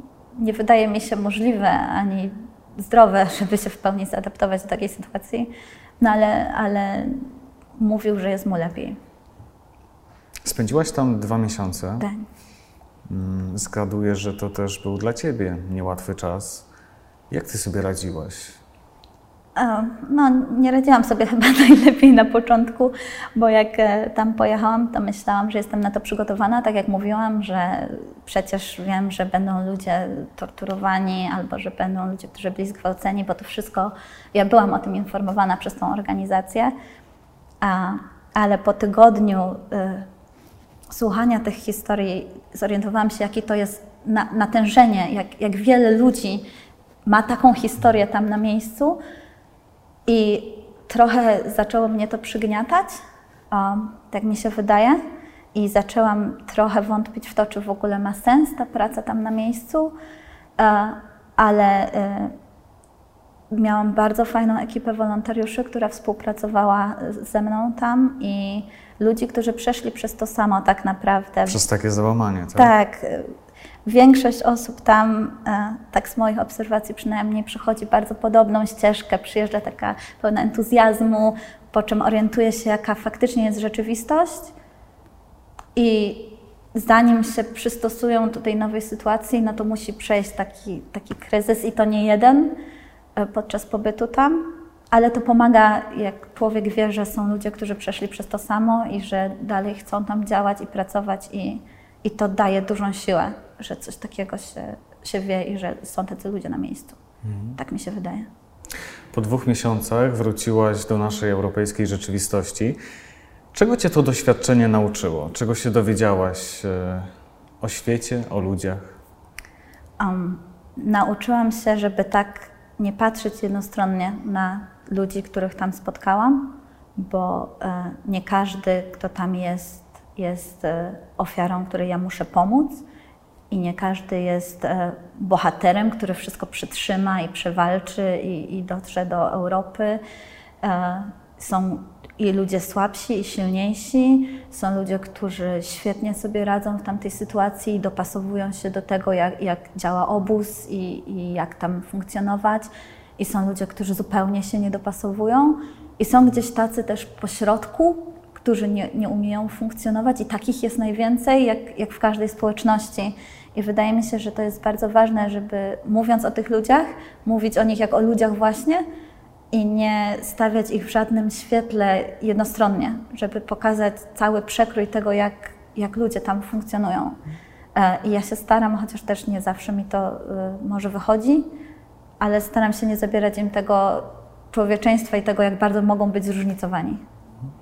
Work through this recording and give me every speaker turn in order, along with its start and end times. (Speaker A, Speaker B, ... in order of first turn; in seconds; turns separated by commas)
Speaker A: 0.3-9.0, Speaker B: 10.4-12.1, Speaker A: 12.0-12.2, Speaker B: 13.1-16.7, Speaker B: 17.3-18.6, Speaker A: 19.6-36.7, Speaker A: 37.6-40.1, Speaker A: 40.9-46.5, Speaker A: 47.0-49.0, Speaker A: 50.0-53.0, Speaker A: 53.5-55.0, Speaker A: 55.5-59.9, Speaker A: 60.6-62.3, Speaker A: 63.5-71.6, Speaker B: 71.4-72.7, Speaker A: 72.5-73.3, Speaker A: 73.8-84.5, Speaker A: 85.7-92.5, Speaker A: 93.2-107.0, Speaker B: 107.2-107.5, Speaker A: 107.5-108.3, Speaker B: 109.1-112.8, Speaker B: 113.5-117.1, Speaker B: 117.6-119.0, Speaker A: 120.0-132.8, Speaker A: 133.5-140.0, Speaker A: 140.6-168.8, Speaker A: 169.5-177.2, Speaker A: 177.7-181.5, Speaker A: 182.2-187.0